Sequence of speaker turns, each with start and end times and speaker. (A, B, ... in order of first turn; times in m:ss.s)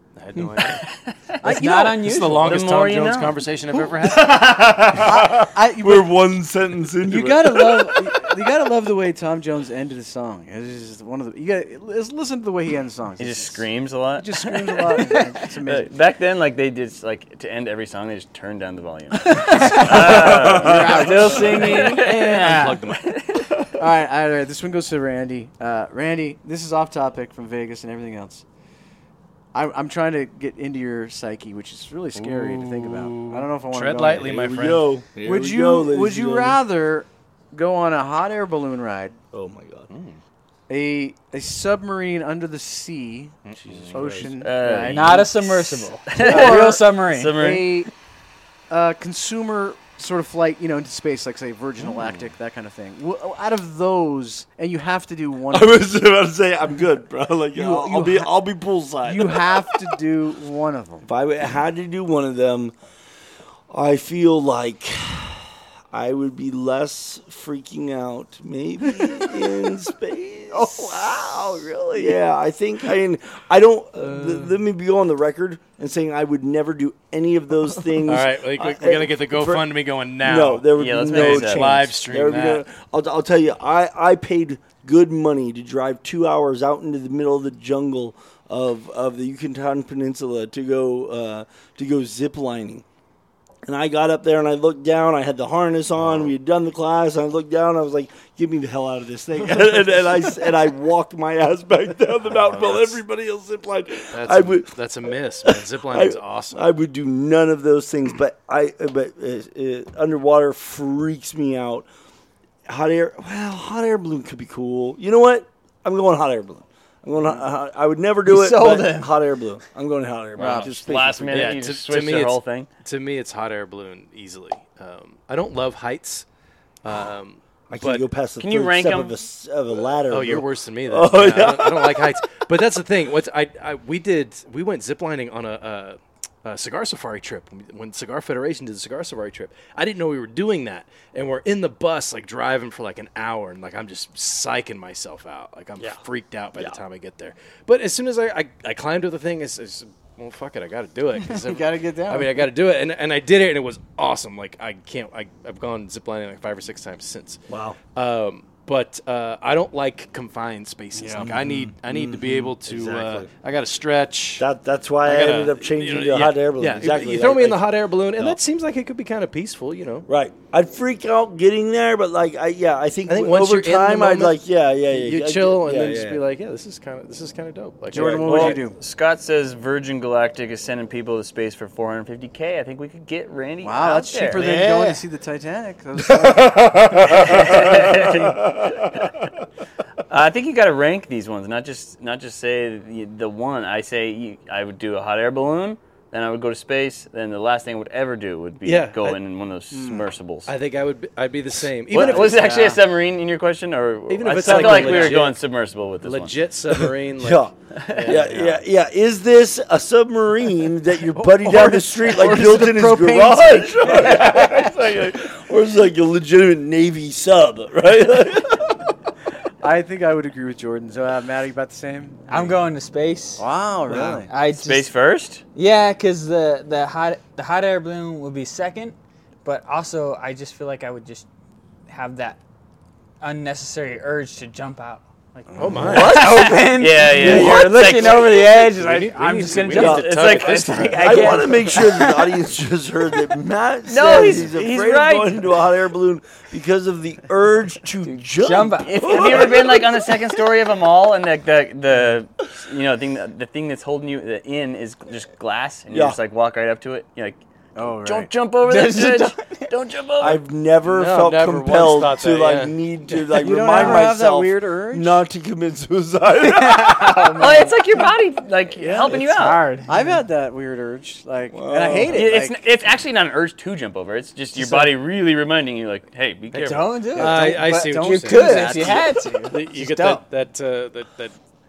0:00.2-0:00.8 A
0:00.8-0:01.2 B
0:01.4-0:02.2 C
0:01.4-0:02.6 D
0:01.9-0:04.4 A
0:02.4-0:03.4 B
0:04.1-0:08.2 E
0:05.0-0:06.2 C
0:07.0-0:13.6 C
0:13.2-0:23.7 B
0:14.2-0:15.9 C
0:19.3-0:22.5 C
0:21.0-0:22.8 D
0:21.9-0:23.1 A
0:23.8-0:28.4 C
0:29.5-0:34.4 C
0:32.5-0:34.9 A
0:34.2-0:36.6 E
0:35.2-0:39.2 C
0:39.3-0:39.9 E
0:39.9-0:40.2 A
0:40.7-0:43.4 C
0:43.4-0:44.2 A
0:43.6-0:44.3 E
0:43.9-0:47.9 C
0:44.4-0:45.4 B
0:44.8-0:47.4 D
0:46.1-0:47.9 B
0:48.7-0:55.8 C
0:55.5-0:59.7 E
0:57.5-0:58.4 C
0:59.0-1:01.1 C
1:01.0-1:02.8 E
1:03.7-1:19.7 E
1:08.9-1:09.3 C
1:10.5-1:12.2 C
1:18.0-1:22.6 A
1:20.2-1:32.8 E
1:20.7-1:21.9 B
1:33.7-1:44.7 E
1:36.0-1:36.3 A
1:42.2-1:43.0 A
1:44.1-1:46.6 A
1:45.5-1:51.9 E
1:52.7-2:01.7 E
1:58.2-1:59.1 D
2:00.4-2:02.7 B
2:00.4-2:00.7 C
2:01.3-2:06.3 A
2:06.8-2:08.1 A
2:07.7-2:12.2 E
2:08.4-2:09.2 B
2:10.1-2:37.4 A
2:31.2-2:32.5 C
2:37.5-2:37.8 E
2:38.0-2:44.5 A
2:41.0-2:41.4 C
2:41.2-2:43.3 E
2:44.4-2:48.4 E
2:45.0-2:50.1 A
2:50.1-2:56.2 E
2:53.1-2:58.6 A
2:57.9-2:58.8 C
2:58.0-2:58.5 E
2:58.1-3:04.5 B
3:03.6-3:06.9 C
3:04.4-3:05.0 D
3:07.2-3:08.6 B
3:10.1-3:20.5 B
3:18.6-3:19.2 A
3:19.7-3:20.1 C
3:20.5-3:22.6 A
3:21.9-3:26.4 B
3:21.9-3:22.8 C
3:24.1-3:25.4 A
3:24.5-3:25.1 C
3:26.0-3:28.6 A
3:27.2-3:27.5 E
3:27.7-3:28.3 B
3:28.0-3:38.7 E
3:31.2-3:34.7 C
3:39.6-3:42.5 C
3:42.3-3:45.0 D
3:43.4-3:44.3 C
3:43.9-3:44.2 E
3:44.4-3:45.4 B
3:45.5-3:51.3 D
3:51.9-3:52.4 D
3:53.2-4:02.3 D
3:55.5-3:55.9 C
3:55.6-3:56.3 A
3:55.8-3:58.7 B
3:57.0-3:58.4 E
3:58.8-4:01.4 A
3:59.7-4:10.1 E
3:59.8-4:01.8 B
4:03.9-4:05.4 B
4:08.1-4:09.5 D
4:08.8-4:17.4 B
4:15.9-4:16.2 E
4:17.8-4:18.3 C
4:18.0-4:20.4 B
4:18.6-4:19.7 D
4:20.2-4:27.3 E
4:20.8-4:22.8 A
4:23.4-4:25.2 C
4:23.8-4:24.0 D
4:26.4-4:27.8 D
4:27.4-4:29.8 B
4:28.8-4:29.3 C
4:29.1-4:30.2 D
4:29.8-4:32.7 C
4:31.5-4:32.3 E
4:32.1-4:37.2 B
4:34.6-4:34.9 D
4:36.5-4:40.2 D
4:37.1-4:41.4 A
4:37.2-4:40.2 C